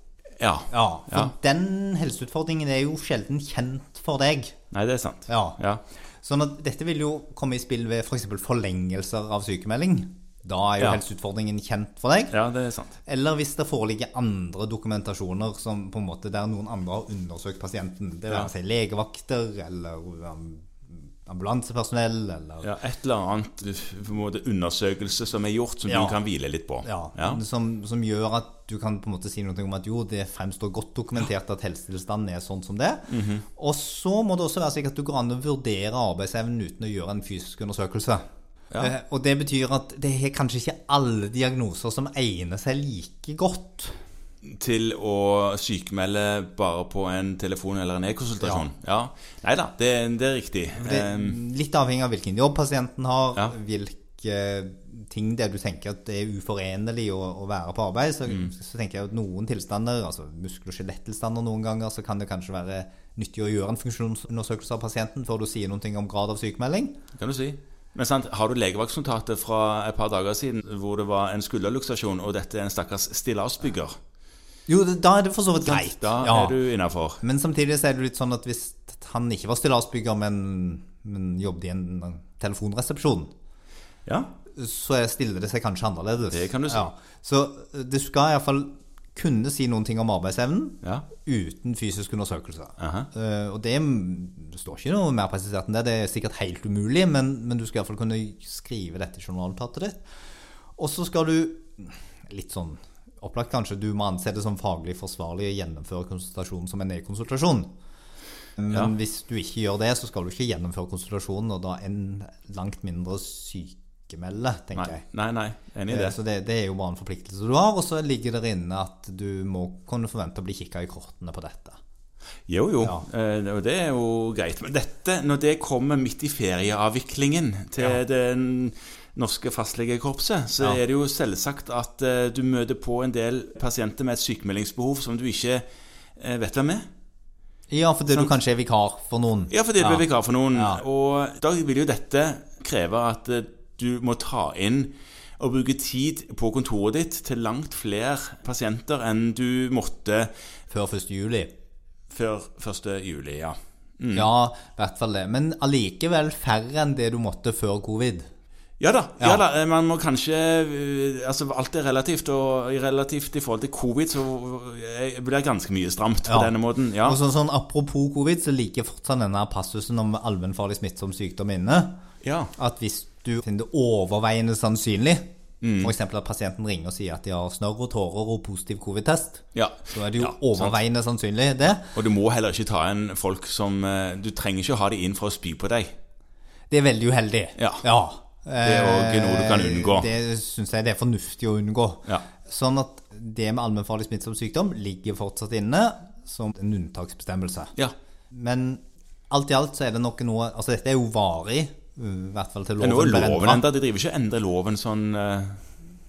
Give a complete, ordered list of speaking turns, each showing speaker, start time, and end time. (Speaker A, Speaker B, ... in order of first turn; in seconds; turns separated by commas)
Speaker A: 0.4-1.3, Speaker B: 0.7-4.6, Speaker A: 4.7-5.8, Speaker B: 5.3-5.6, Speaker B: 6.2-12.4, Speaker A: 12.3-13.0, Speaker B: 13.1-22.7, Speaker A: 22.6-27.4, Speaker B: 25.9-26.2, Speaker B: 26.8-38.2, Speaker A: 33.1-33.5, Speaker B: 38.8-44.0, Speaker A: 44.5-51.4, Speaker B: 48.4-48.7, Speaker B: 50.8-67.0, Speaker A: 67.1-74.0, Speaker B: 74.7-76.6, Speaker A: 75.6-77.2, Speaker B: 77.2-83.3, Speaker A: 84.1-84.4, Speaker B: 84.5-100.0, Speaker A: 86.3-86.9, Speaker A: 90.8-91.2, Speaker A: 92.8-93.1, Speaker B: 100.8-107.7, Speaker B: 108.6-115.0, Speaker A: 114.8-116.2, Speaker B: 115.9-121.8, Speaker A: 122.5-135.7, Speaker A: 136.2-136.9, Speaker B: 137.7-140.8, Speaker A: 138.1-138.4, Speaker A: 139.5-150.3, Speaker B: 150.7-151.5, Speaker A: 152.1-154.3, Speaker B: 154.1-158.3, Speaker A: 158.8-167.2, Speaker B: 159.2-159.4, Speaker B: 166.2-172.0, Speaker A: 172.2-172.5, Speaker B: 172.6-181.9, Speaker A: 175.6-175.9, Speaker A: 179.6-180.8, Speaker A: 181.9-185.9, Speaker B: 186.7-197.7, Speaker A: 187.6-187.8, Speaker A: 188.6-190.1, Speaker B: 198.3-203.7, Speaker A: 202.8-205.6